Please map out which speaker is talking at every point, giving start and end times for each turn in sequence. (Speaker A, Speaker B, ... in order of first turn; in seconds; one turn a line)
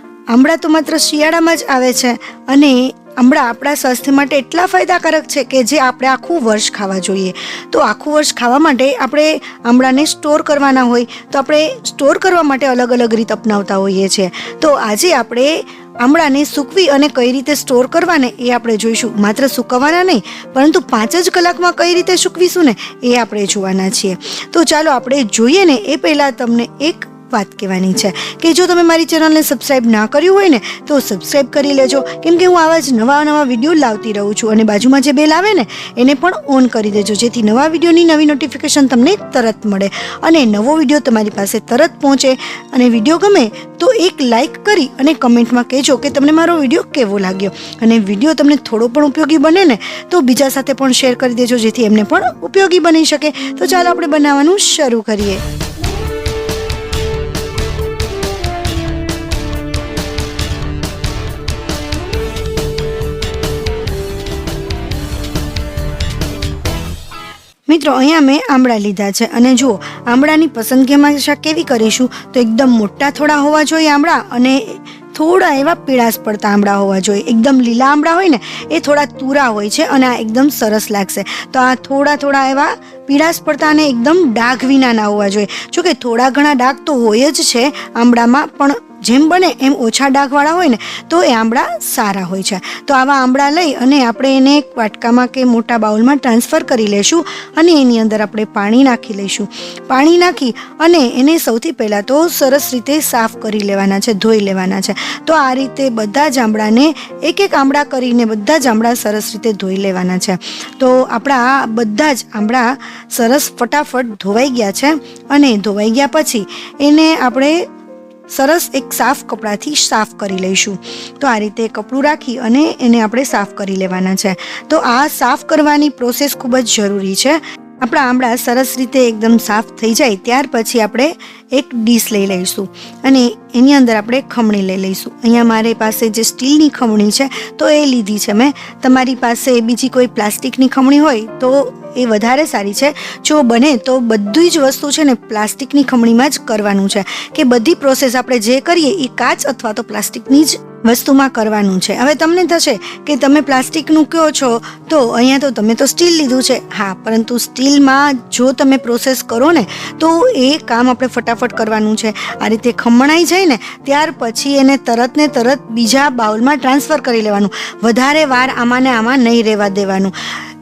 Speaker A: 0.3-55.4
Speaker A: 67.7-117.6
Speaker A: 118.3-170.1